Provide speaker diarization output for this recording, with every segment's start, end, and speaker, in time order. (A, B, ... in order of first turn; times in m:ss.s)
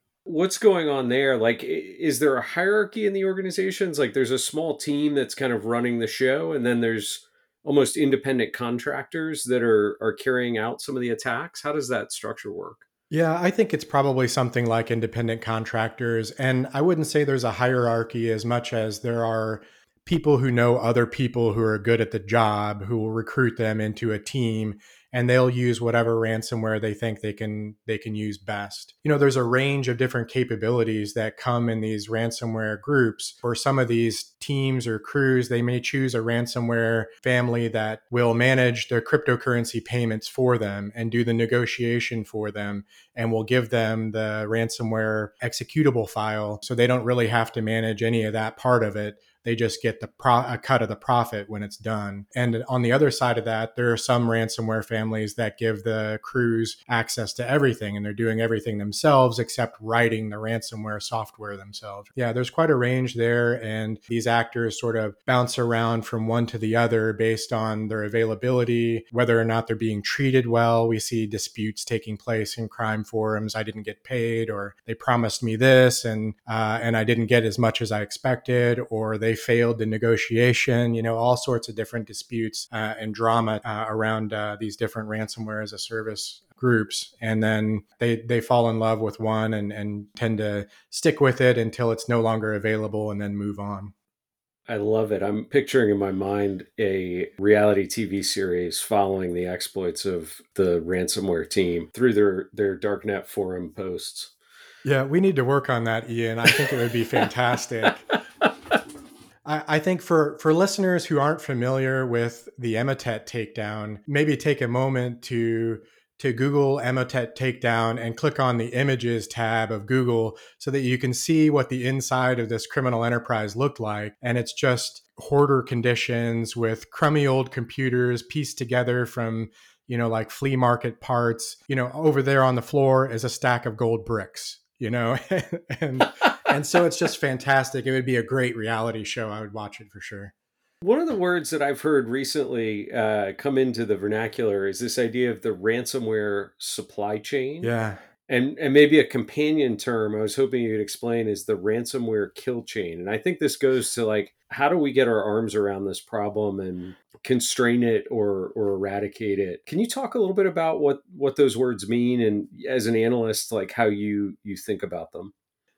0:00.2-0:12.8 A
0:13.1-1:33.9 B
1:34.7-1:44.3 A
1:44.8-1:48.0 B
1:49.4-2:20.3 B
2:20.8-2:27.7 A
2:27.6-2:28.0 B
2:28.3-2:45.3 A